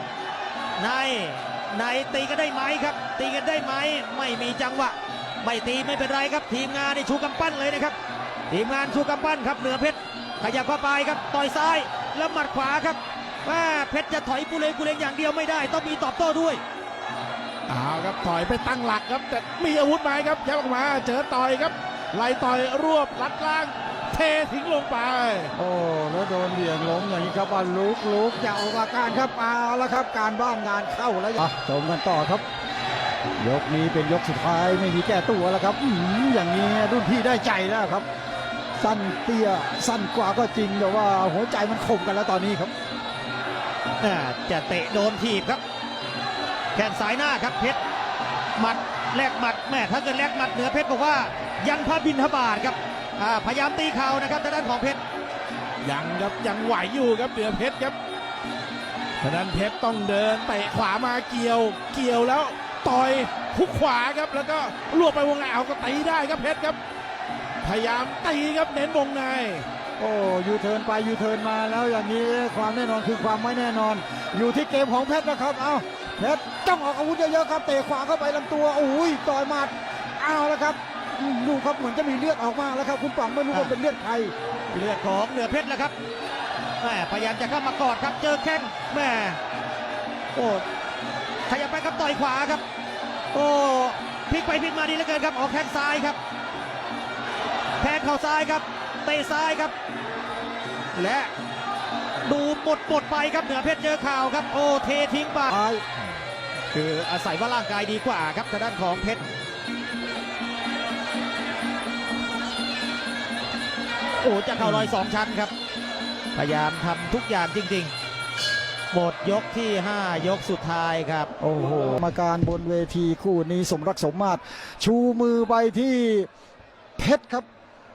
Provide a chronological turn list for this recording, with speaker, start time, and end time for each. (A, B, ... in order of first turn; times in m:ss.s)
0:00.8-0:08.0 A
0:08.5-0:16.6 A
0:17.7-0:25.5 B
0:25.5-0:32.4 C
0:33.4-0:38.1 C
0:38.8-0:42.7 C
0:44.0-0:45.6 A
0:46.7-0:47.8 A
0:48.6-0:55.0 A
0:55.8-0:57.9 B
0:59.2-1:06.8 B
1:07.6-1:09.7 B
1:10.0-1:24.3 C
1:24.7-1:25.9 A
1:26.8-1:29.4 A
1:30.3-1:30.6 A
1:31.5-1:32.6 A
1:33.3-1:36.2 A
1:37.8-1:39.7 A
1:40.9-1:41.3 A
1:42.2-1:45.6 A
1:45.5-1:45.8 C
1:46.7-1:49.2 A
1:54.2-1:55.5 A
1:54.6-1:55.0 C
1:56.3-1:57.9 A
1:58.9-2:01.3 A
2:01.4-2:06.3 C
2:07.0-2:07.4 C